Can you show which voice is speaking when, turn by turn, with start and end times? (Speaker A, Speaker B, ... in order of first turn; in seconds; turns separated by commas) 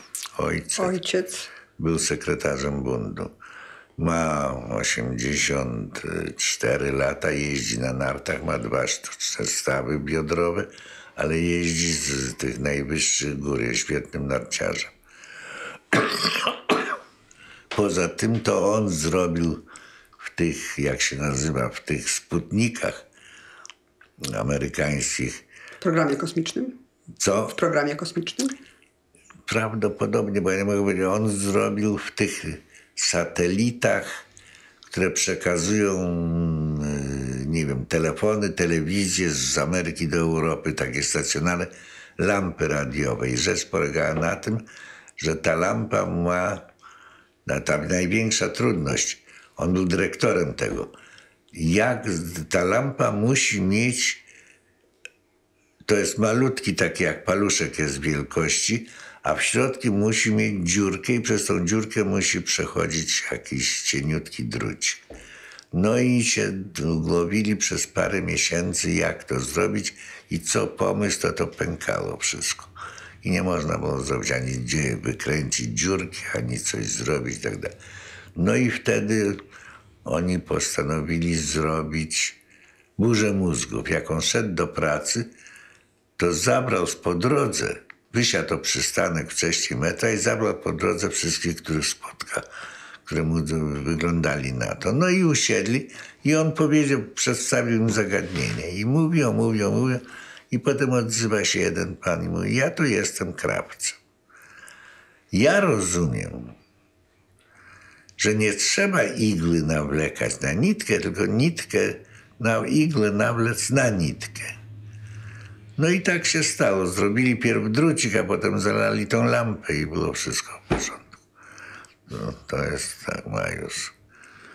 Speaker A: 0.3-1.0, Speaker B: 0.8-1.5, Speaker A: 1.8-3.3, Speaker A: 4.0-14.9, Speaker A: 15.9-16.7, Speaker A: 17.7-19.6, Speaker A: 20.3-23.0, Speaker A: 24.2-25.4, Speaker B: 25.8-26.7, Speaker A: 27.2-27.6, Speaker B: 27.5-28.5, Speaker A: 29.5-34.2, Speaker A: 34.9-44.6, Speaker A: 45.2-46.6, Speaker A: 47.5-50.9, Speaker A: 51.5-54.2, Speaker A: 55.9-65.0, Speaker A: 65.7-72.7, Speaker A: 73.2-77.7, Speaker A: 78.3-79.4, Speaker A: 80.0-82.4, Speaker A: 83.0-85.2, Speaker A: 86.2-92.4, Speaker A: 93.0-104.0, Speaker A: 105.3-106.5, Speaker A: 108.2-114.5, Speaker A: 115.8-121.2, Speaker A: 122.1-123.9